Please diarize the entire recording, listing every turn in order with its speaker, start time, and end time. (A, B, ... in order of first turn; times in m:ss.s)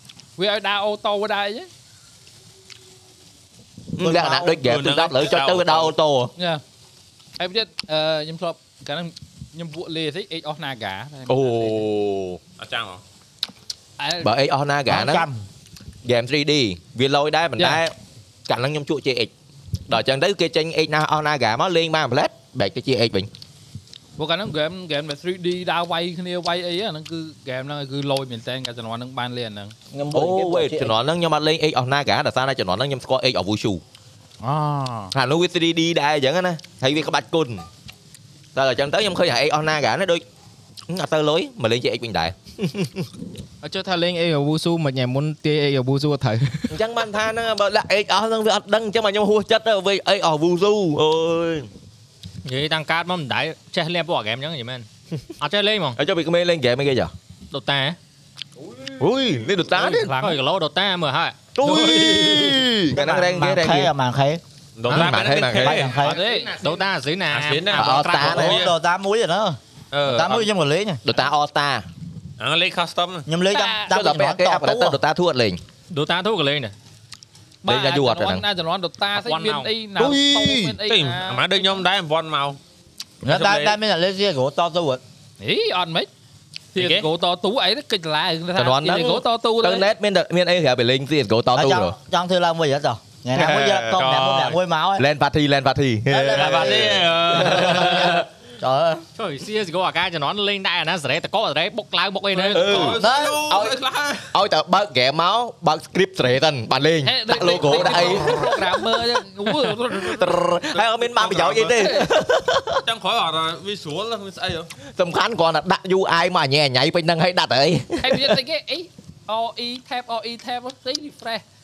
0:00.4-0:01.7 A
0:04.0-0:06.3 B
0:04.0-0:04.6 C
0:04.6-0:05.9 D
0:06.4-0:06.6 A
0:07.4-0:11.8 A
0:11.3-0:12.4 B
0:12.6-0:13.0 D
0:14.0-0:14.3 A
0:14.2-0:15.3 B
0:14.9-0:15.4 C
0:16.0-0:17.9 B
0:18.5-0:19.3 B
0:19.9-0:23.3 B
0:24.2-0:29.7 A
0:29.9-0:30.9 C
0:30.1-0:33.8 B
0:34.4-0:35.1 A
0:35.1-0:37.6 B
0:38.5-0:40.2 B
0:40.9-0:43.0 B
0:43.6-0:46.8 E
0:46.7-0:51.7 B
0:52.4-0:54.9 F
0:55.4-0:56.0 F
0:56.0-0:57.1 B
0:57.5-0:58.0 F
0:59.0-1:00.1 B
0:59.8-1:02.6 F
0:59.8-1:00.4 A
1:01.5-1:03.9 B
1:02.9-1:04.4 C
1:04.8-1:06.0 D
1:04.9-1:05.8 B
1:04.9-1:05.3 F
1:05.5-1:06.2 C
1:06.0-1:08.6 F
1:06.0-1:06.6 A
1:07.3-1:08.7 D
1:07.7-1:08.6 B
1:08.2-1:11.0 C
1:09.9-1:10.4 D
1:11.0-1:11.8 B
1:12.4-1:13.3 D
1:13.3-1:15.0 C
1:13.5-1:13.9 A
1:13.9-1:15.6 B
1:15.9-1:16.7 F
1:17.6-1:21.8 A
1:17.6-1:18.4 B
1:19.1-1:19.7 F
1:20.9-1:22.6 D
1:23.2-1:25.0 C
1:23.2-1:23.8 D
1:25.4-1:26.1 A
1:26.7-1:29.9 A
1:26.8-1:27.0 D
1:28.6-1:31.9 B
1:31.5-1:35.0 C
1:33.4-1:33.8 B
1:33.9-1:34.6 D
1:35.0-1:38.2 B
1:36.1-1:39.0 C
1:36.3-1:38.2 D
1:39.2-1:42.9 F
1:42.3-1:44.3 D
1:42.5-1:43.8 B
1:43.0-1:43.5 C
1:44.3-1:49.0 B
1:47.0-1:50.4 A
1:49.8-1:52.8 B
1:51.2-1:51.7 D
1:51.7-1:52.1 A
1:52.8-1:54.7 D
1:55.0-1:58.4 B
1:58.0-2:01.4 A